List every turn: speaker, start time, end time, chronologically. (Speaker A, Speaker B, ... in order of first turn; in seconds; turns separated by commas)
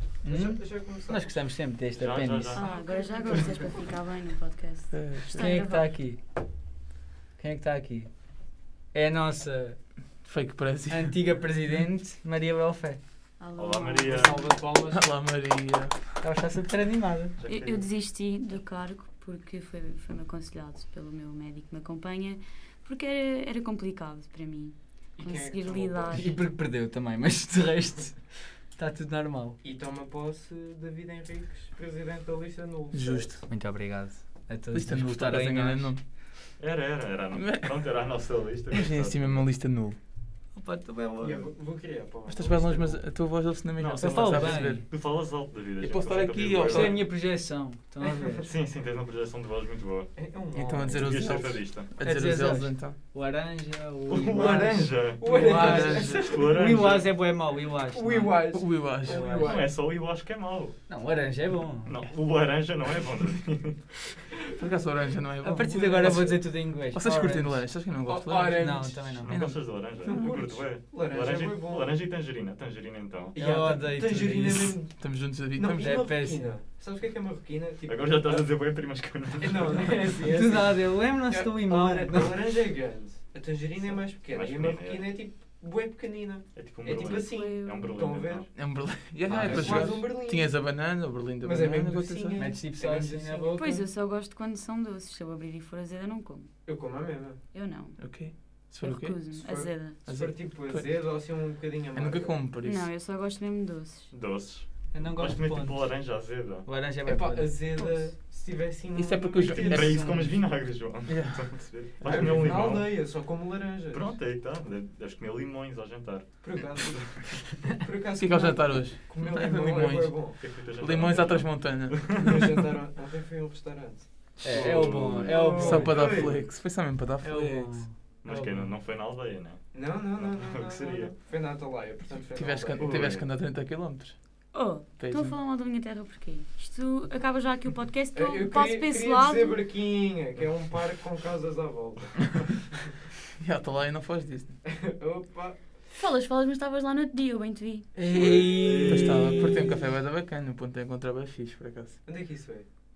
Speaker A: 0.2-2.6, Speaker B: 0.3-1.4, Speaker C: 1.9-2.7, Speaker B: 2.5-3.8, Speaker D: 2.5-5.9, Speaker E: 4.9-5.5, Speaker A: 5.3-6.2, Speaker A: 7.4-8.1, Speaker A: 8.9-9.8, Speaker E: 10.2-11.2, Speaker A: 10.9-13.0, Speaker D: 13.4-14.6, Speaker C: 13.6-14.4, Speaker A: 14.1-15.1, Speaker E: 14.9-16.0, Speaker A: 16.2-17.4, Speaker C: 17.4-17.9, Speaker D: 17.5-26.3, Speaker B: 25.2-26.4, Speaker A: 26.1-29.6, Speaker B: 29.6-33.5, Speaker E: 32.9-33.4, Speaker A: 33.5-35.9, Speaker E: 34.7-36.0, Speaker C: 36.6-39.5, Speaker E: 37.3-37.7, Speaker E: 38.7-40.0, Speaker A: 40.5-41.5, Speaker B: 41.2-43.0, Speaker E: 42.3-44.9, Speaker C: 43.8-47.1, Speaker A: 44.0-44.9, Speaker E: 45.8-46.9, Speaker A: 46.7-48.5, Speaker B: 48.0-48.5, Speaker C: 48.4-50.1, Speaker B: 50.1-51.1, Speaker E: 50.5-53.0, Speaker C: 50.9-52.0, Speaker A: 52.0-58.5, Speaker C: 54.1-57.2, Speaker B: 54.3-56.9, Speaker E: 55.4-56.3, Speaker B: 57.9-59.7, Speaker E: 58.5-59.3, Speaker A: 59.0-59.6, Speaker C: 59.2-60.8, Speaker A: 60.9-62.0, Speaker C: 61.8-63.9, Speaker E: 64.6-70.1, Speaker A: 65.4-67.9, Speaker B: 65.7-66.4, Speaker B: 68.1-72.0, Speaker A: 68.5-69.3, Speaker C: 69.2-73.4, Speaker B: 73.3-78.5, Speaker A: 73.3-74.8, Speaker E: 74.8-76.1, Speaker A: 75.8-76.5, Speaker C: 77.8-80.1, Speaker B: 79.4-88.5, Speaker A: 80.2-82.6, Speaker C: 84.1-85.2, Speaker C: 86.5-88.6, Speaker D: 87.0-88.0, Speaker E: 88.5-92.5, Speaker A: 89.3-90.1, Speaker B: 89.4-90.5, Speaker B: 91.4-93.7, Speaker A: 92.3-93.9, Speaker D: 93.6-96.5, Speaker B: 96.7-97.4, Speaker D: 97.5-100.0, Speaker E: 98.0-101.3, Speaker B: 99.4-102.4, Speaker E: 101.9-102.9, Speaker D: 102.6-104.1, Speaker C: 104.1-106.7, Speaker A: 104.9-105.9, Speaker A: 106.7-107.7, Speaker B: 107.1-110.1, Speaker D: 107.8-108.1, Speaker E: 109.0-110.1, Speaker C: 109.5-113.2, Speaker A: 109.9-110.4, Speaker E: 111.1-112.4, Speaker B: 112.0-114.2, Speaker C: 113.9-117.0, Speaker B: 116.4-117.2, Speaker B: 117.8-120.4, Speaker E: 118.2-122.5, Speaker C: 120.4-122.3, Speaker B: 122.2-126.4, Speaker A: 124.4-126.3, Speaker C: 124.4-125.6, Speaker E: 125.6-127.8, Speaker A: 127.2-128.7, Speaker C: 128.2-131.2, Speaker B: 129.7-133.1, Speaker E: 132.3-134.2, Speaker C: 132.7-133.3, Speaker D: 134.5-139.6, Speaker E: 135.0-135.4, Speaker B: 138.1-142.6, Speaker E: 143.4-144.6, Speaker B: 144.7-145.6, Speaker D: 146.0-147.9, Speaker A: 148.0-149.6, Speaker C: 148.1-149.7, Speaker E: 148.8-152.0, Speaker B: 152.1-152.7